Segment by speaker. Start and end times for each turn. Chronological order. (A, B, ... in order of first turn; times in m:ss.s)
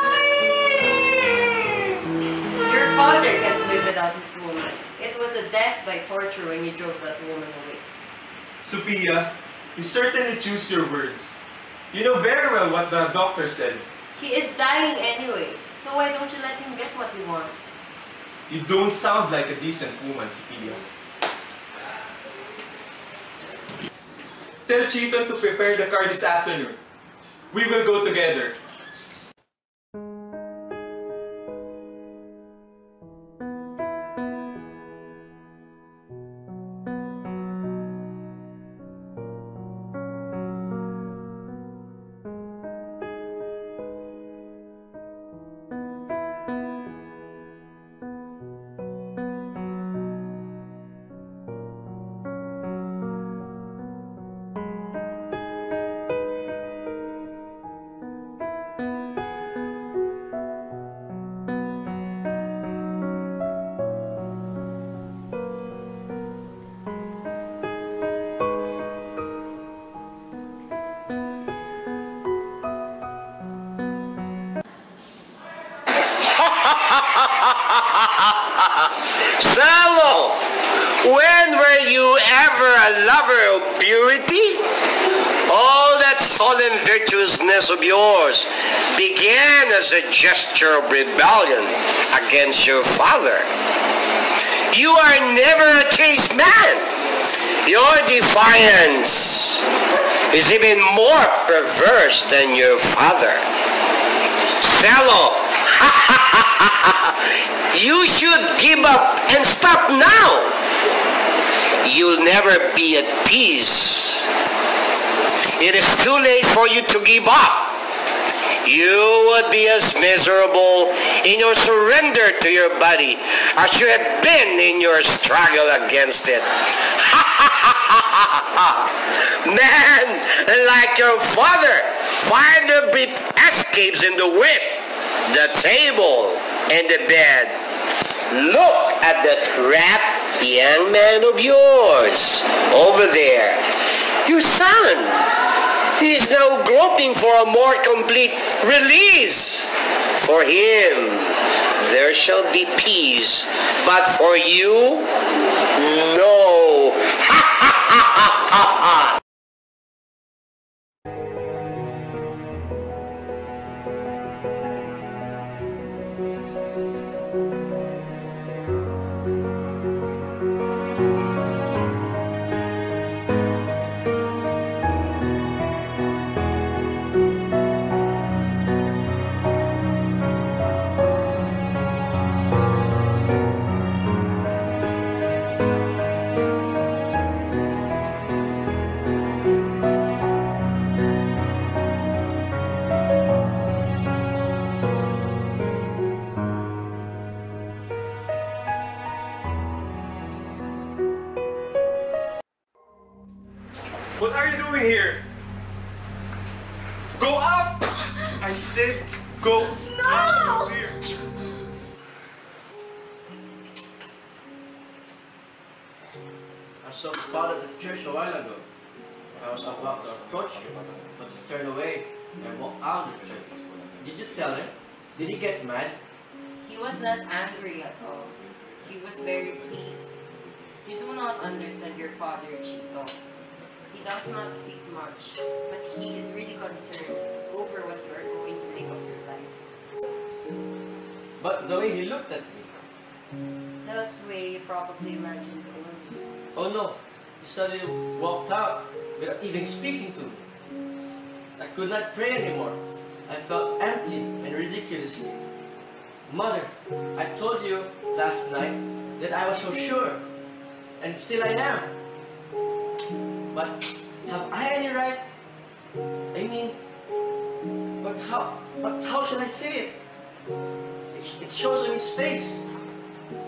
0:02.6-0:07.8 A
0:08.6-0:11.4 B
0:11.9-0:13.9 B
0:14.1-0:17.7 A
0:18.5-0:20.8 B
0:24.6-0:26.8 B
0:27.5-0:28.6 B
1:16.3-1:20.4 C
1:21.0-1:24.6 C
1:25.5-1:33.5 C
1:34.7-1:36.8 C
1:37.6-1:39.6 C
1:40.3-1:43.4 C
1:44.6-1:50.5 C
1:51.8-1:54.3 C
1:55.6-1:57.7 C
1:58.6-2:06.4 C
2:07.0-2:17.5 C
2:18.3-2:23.6 C
2:24.2-2:25.2 C
2:26.0-2:29.7 C
2:30.2-2:35.0 C
2:35.7-2:39.1 C
3:24.2-3:25.2 B
3:27.2-3:31.1 B
3:36.8-3:38.6 D
3:39.4-3:46.0 D
3:46.6-3:50.1 A
3:50.8-3:53.2 A
3:53.9-3:59.5 A
4:01.4-4:02.7 D
4:03.8-4:06.2 A
4:06.5-4:10.4 D
4:11.6-4:15.4 D
4:16.3-4:20.2 D
4:21.0-4:21.9 D
4:23.5-4:25.2 D
4:26.3-4:26.8 D
4:28.0-4:30.0 D
4:31.1-4:32.6 D